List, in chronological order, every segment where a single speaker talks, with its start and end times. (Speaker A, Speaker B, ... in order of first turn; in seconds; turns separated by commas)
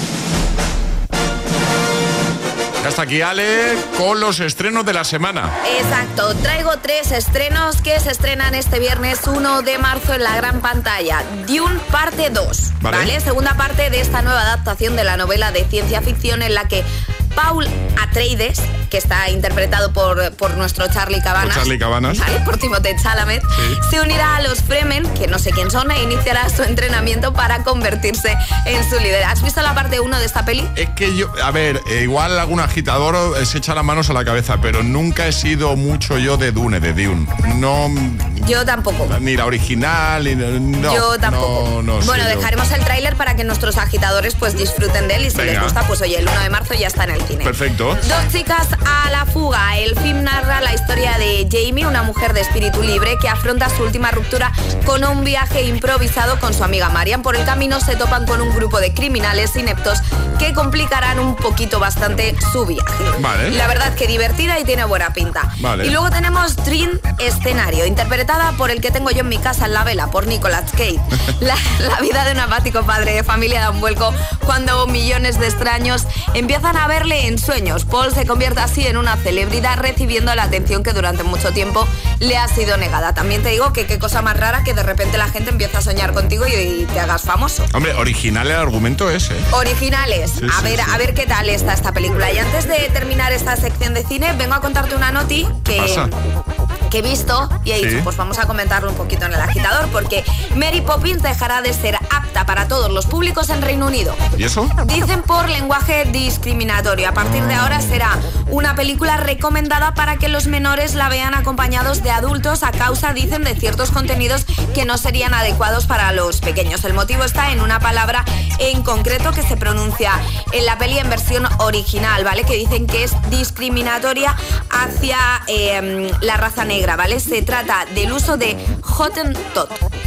Speaker A: 2.8-5.5, Speaker B: 5.6-30.7, Speaker A: 12.8-13.1, Speaker A: 21.4-22.2, Speaker A: 30.8-38.4, Speaker B: 38.4-39.1, Speaker A: 39.1-42.5, Speaker B: 40.8-87.7, Speaker A: 45.3-45.8, Speaker A: 47.4-48.0, Speaker A: 63.2-63.6, Speaker A: 65.6-65.9, Speaker A: 87.7-89.5, Speaker B: 89.5-96.1, Speaker A: 90.4-91.0, Speaker A: 95.8-96.1, Speaker B: 96.9-104.2, Speaker A: 97.8-98.1, Speaker A: 104.4-104.7, Speaker B: 104.8-129.8